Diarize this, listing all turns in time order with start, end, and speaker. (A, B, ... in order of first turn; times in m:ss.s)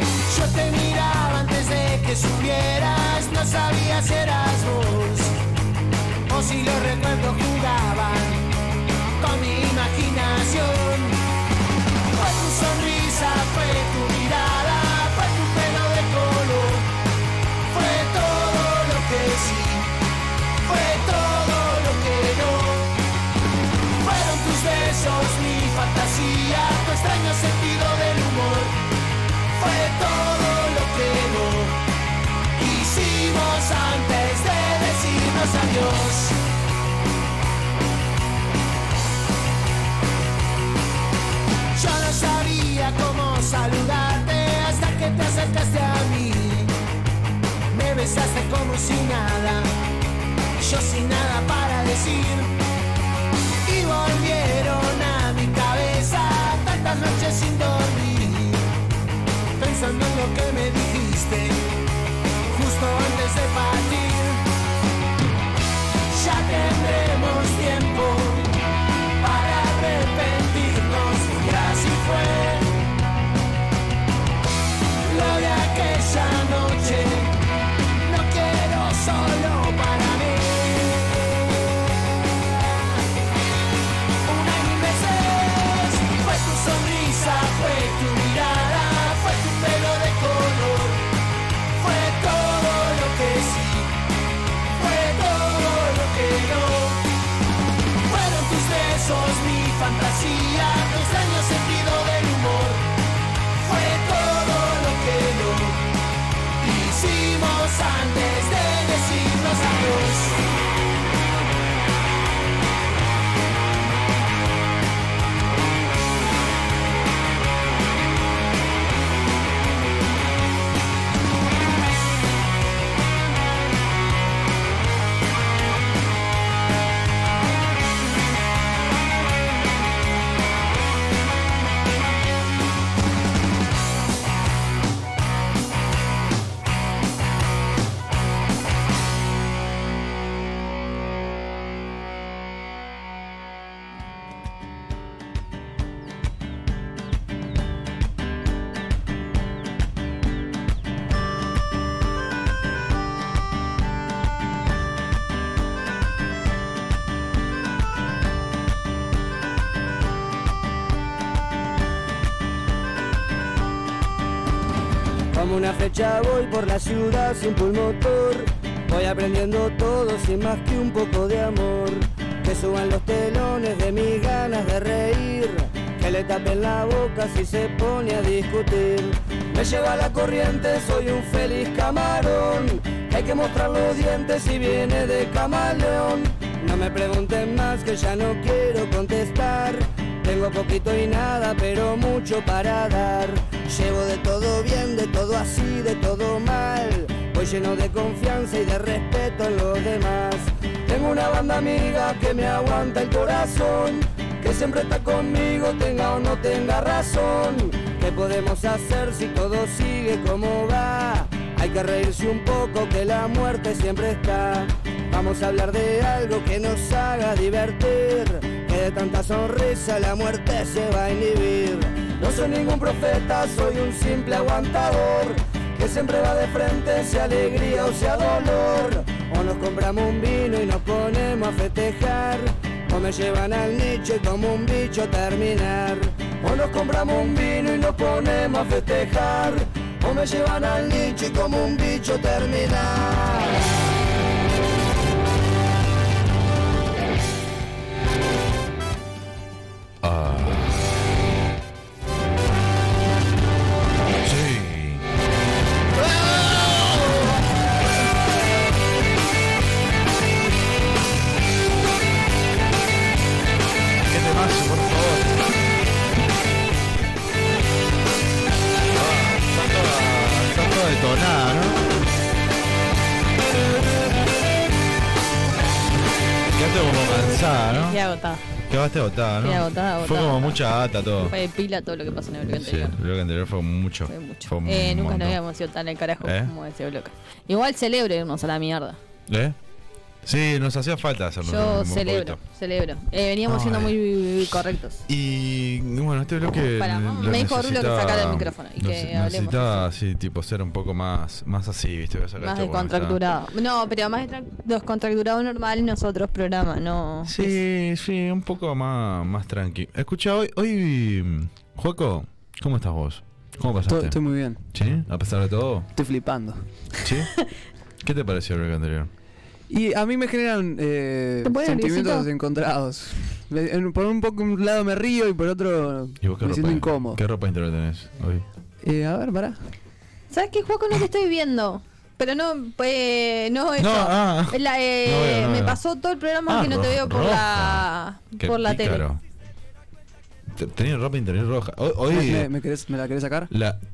0:00.3-0:05.4 A
0:06.3-0:08.5 A
0:09.2-0:11.2 A
0:12.1-0:16.9 A
0:17.7-0:19.9 A
0:20.6-0:22.9 A
0:24.0-0:28.8 A
0:29.5-0:31.8 A
0:32.6-0:36.4 A
0:41.8-0:46.7 A
0:47.7-0:49.7 A
0:50.6-0:52.5 A
0:53.7-0:58.7 A
0:59.6-1:01.6 A
1:02.5-1:04.4 A
1:06.1-1:08.5 A
1:09.2-1:12.8 A
1:15.0-1:17.4 A
1:18.0-1:21.3 A
1:24.3-1:31.0 A
1:31.8-1:34.0 A
1:34.8-1:37.0 A
1:38.1-1:42.9 A
1:43.6-1:45.9 A
1:46.6-1:50.4 A
2:45.3-4:03.6 B
4:10.0-4:10.8 C
4:14.2-4:15.0 C
4:16.2-4:17.0 C
4:24.1-4:25.4 C
4:29.0-4:31.8 C
4:36.6-4:38.0 C
4:37.8-4:38.4 D
4:38.7-4:41.3 C
4:39.4-4:40.6 D
4:41.2-4:43.0 D
4:42.5-4:45.4 C
4:44.1-4:49.0 D
4:46.2-4:46.5 C
4:49.3-4:49.6 C
4:50.2-4:52.4 C
4:51.4-4:55.0 D
4:53.5-4:53.9 C
4:55.1-5:03.2 C
4:56.8-4:59.9 D
5:02.4-5:07.6 D
5:07.3-5:14.2 C
5:13.9-5:14.6 E
5:14.7-5:15.9 C
5:16.0-5:16.6 E
5:17.0-5:17.3 C
5:18.0-5:19.1 C
5:19.7-5:27.2 E
5:21.4-5:22.3 D
5:26.2-5:28.4 C
5:28.8-5:29.6 E
5:30.3-5:39.0 D
5:33.8-5:35.8 C
5:36.5-5:37.8 C
5:38.4-5:39.2 C
5:40.6-5:42.5 C
5:42.1-5:43.5 E
5:43.5-5:43.8 C